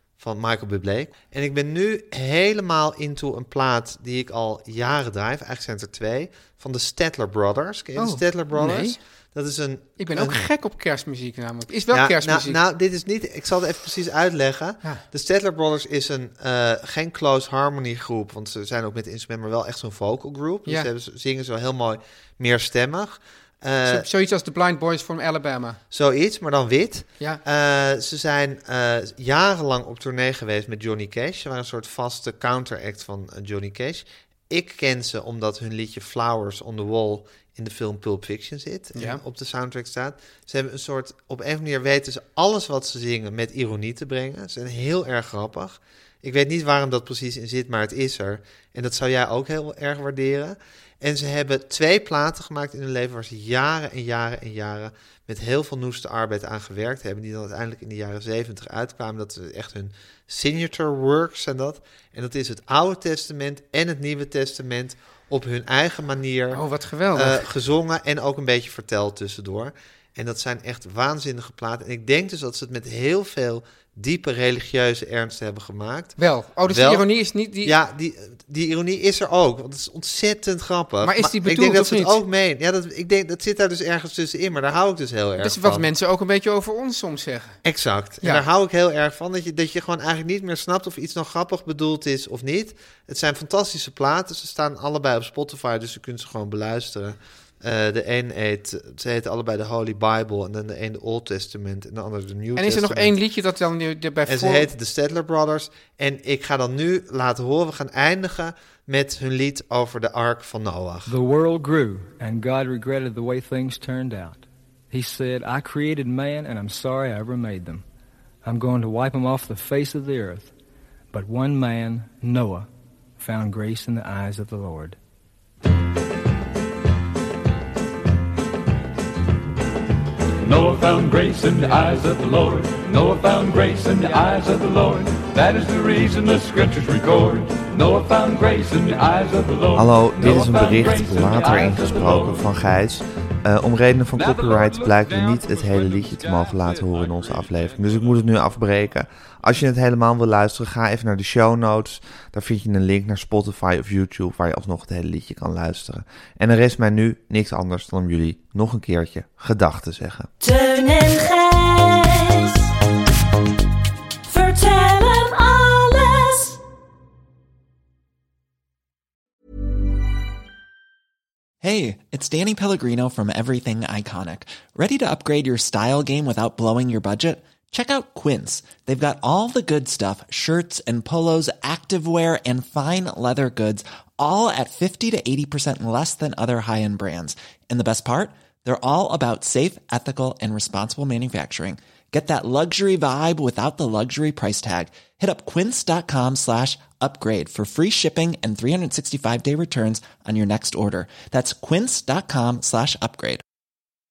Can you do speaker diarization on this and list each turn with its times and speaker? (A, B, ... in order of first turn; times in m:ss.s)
0:00.2-0:10.4 A
0:08.0-0:09.0 B
0:10.0-0:12.6 B
0:11.9-0:24.1 A
0:23.8-0:25.8 B
0:25.9-1:06.6 A
0:38.9-0:39.2 B
1:06.5-1:07.5 B
1:07.1-1:17.1 A
1:16.2-1:17.8 B
1:17.6-1:25.9 A
1:21.0-1:22.2 B
1:25.4-1:27.5 B
1:27.6-1:43.2 A
1:42.6-1:44.7 B
1:44.3-1:51.1 A
1:51.0-1:57.8 C
1:58.4-2:00.5 C
2:01.1-2:05.0 C
2:10.4-2:22.5 D
2:19.7-2:40.3 A
2:24.1-2:28.2 D
2:40.4-2:42.7 E
2:44.2-2:46.6 E
2:51.6-3:23.4 F